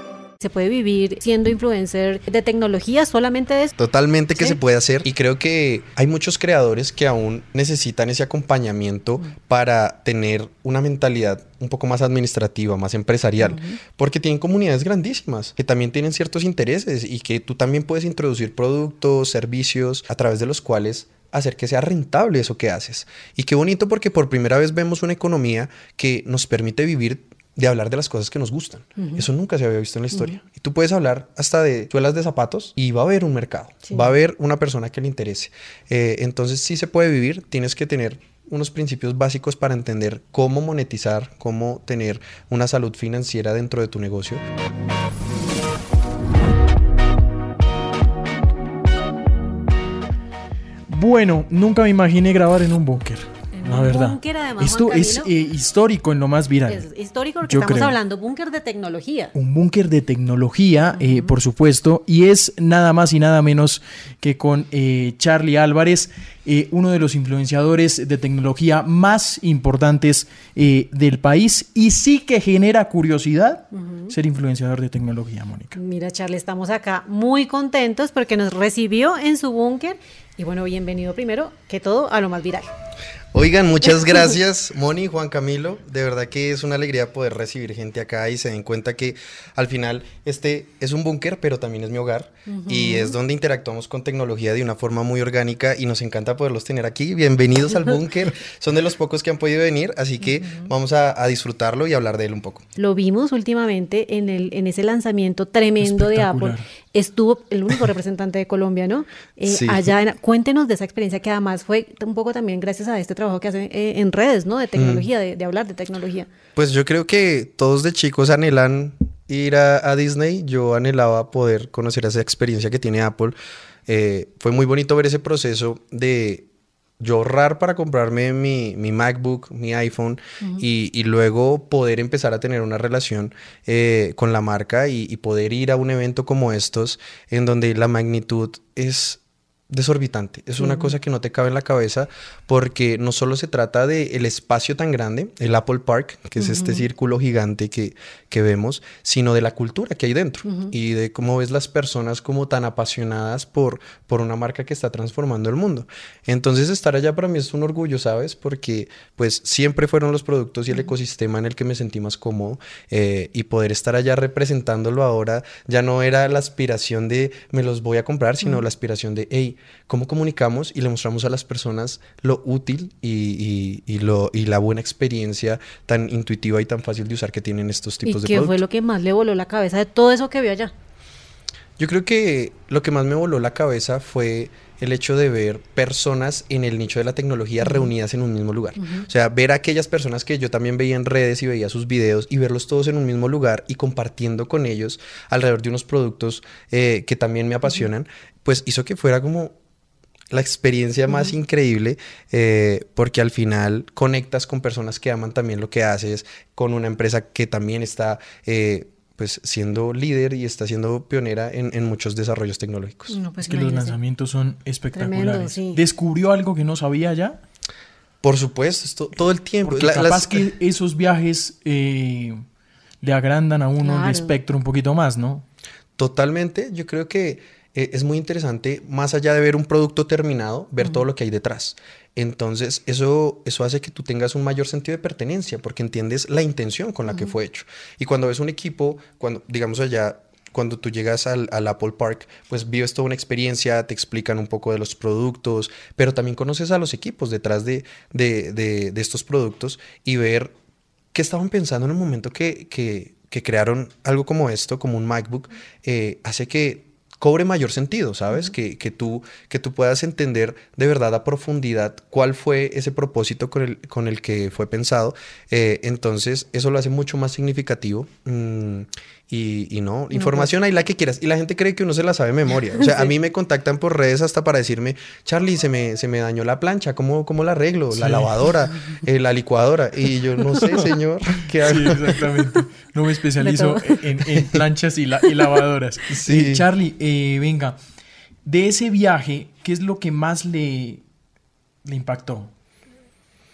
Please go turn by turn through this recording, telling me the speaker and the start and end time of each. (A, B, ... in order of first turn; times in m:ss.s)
0:00.4-0:03.7 A
0:03.8-0:44.4 B
0:13.4-0:13.8 A
0:29.0-0:29.2 A
0:50.9-0:56.8 C
0:53.5-0:55.3 A
0:56.7-0:59.3 A
0:57.4-0:58.0 C
0:59.3-1:15.8 C
1:00.9-1:01.4 A
1:13.7-1:14.1 A
1:15.7-1:22.7 A
1:23.3-1:42.6 B
1:32.5-1:33.2 A
1:40.2-1:40.7 A
1:42.8-1:56.3 A
1:45.8-1:46.6 C
1:49.4-1:49.9 B
1:54.8-1:55.1 B
1:56.6-2:03.4 B
2:03.9-2:06.5 B
2:07.0-2:58.6 B
2:20.6-2:20.9 A
2:26.4-2:26.8 A
2:30.4-2:30.7 A
2:58.0-3:00.7 A
3:01.8-3:19.5 B
3:07.6-3:07.9 A
3:08.8-3:09.0 A
3:20.3-3:33.2 B
3:33.1-3:34.0 A
3:33.4-3:37.4 C
3:34.9-3:35.8 A
3:38.2-3:40.4 B
3:39.6-3:42.4 C
3:43.0-3:45.4 C
3:43.8-3:44.3 A
3:46.0-4:10.5 B
4:11.1-4:42.2 B
4:30.1-4:30.5 A
4:32.8-4:33.1 A
4:37.9-4:38.5 C
4:40.6-4:40.9 C
4:41.6-4:47.8 C
4:43.4-4:43.9 A
4:46.1-4:46.7 B
4:48.4-4:51.0 C
4:51.8-4:52.5 C